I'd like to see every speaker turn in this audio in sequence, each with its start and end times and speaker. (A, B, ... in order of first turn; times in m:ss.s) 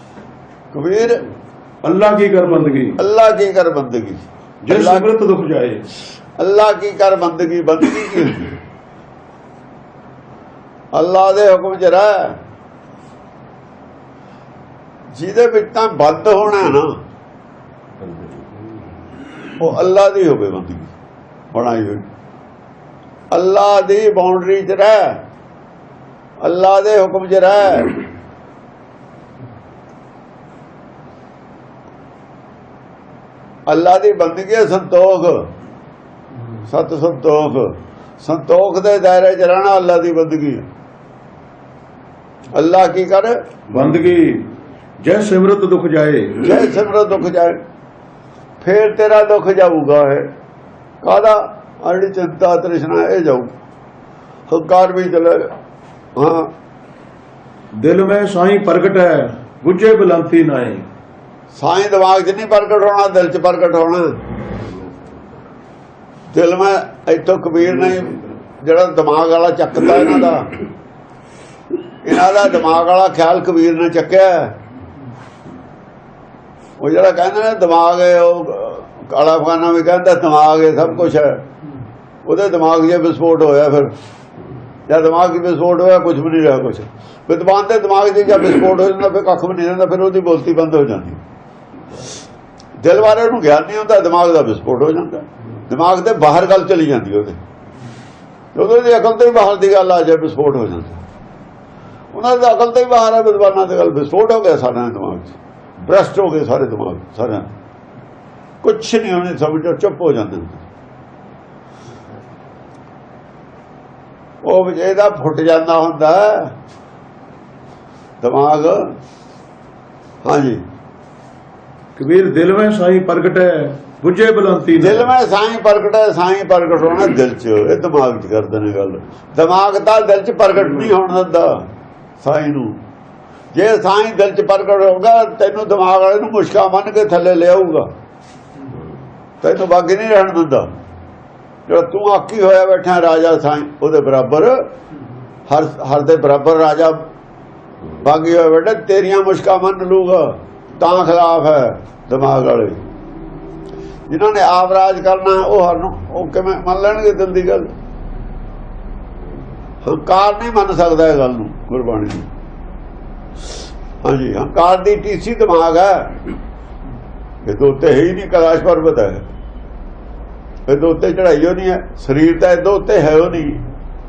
0:00.7-0:01.2 A
0:01.8-0:03.0 B
0:03.0-0:05.1 A
0:04.6-0:05.8 B
0:06.4-0:08.6 A
0:10.9-0:12.4 A
0:15.1-0:16.9 A
0:19.6-0:20.9 A
0:21.5-0:22.0 A
0:23.3-0:25.2 A
0:26.4-0:28.0 A
0:33.7-0:35.5 A
0:36.7-0:40.6 A
0:42.5-0:43.3 A
0:43.7-0:44.5 B
0:45.0-0:46.5 B
0:46.4-0:47.6 A
0:48.6-0:50.3 A
0:51.0-0:53.5 A
0:54.5-0:55.5 A
0:56.2-0:56.5 A
0:57.8-1:00.9 B
1:01.5-1:04.2 A
1:06.3-1:10.5 A
1:12.0-1:14.6 A
1:16.8-1:21.4 A
1:22.2-1:23.9 A
1:24.9-1:31.2 A
1:32.8-1:37.4 A
1:38.5-1:41.0 A
1:42.1-1:47.5 A
1:48.6-1:50.6 A
1:54.4-1:56.5 A
1:58.2-1:58.9 A
2:00.2-2:00.6 A
2:02.0-2:05.1 B
2:04.8-2:11.6 A
2:12.2-2:12.8 A
2:13.5-2:17.9 A
2:19.4-2:20.7 A
2:21.7-2:24.7 A
2:25.5-2:27.0 A
2:28.0-2:32.8 A
2:34.1-2:37.7 A
2:39.8-2:42.3 A
2:44.0-2:46.2 A
2:47.4-2:49.2 A
2:50.7-2:53.6 A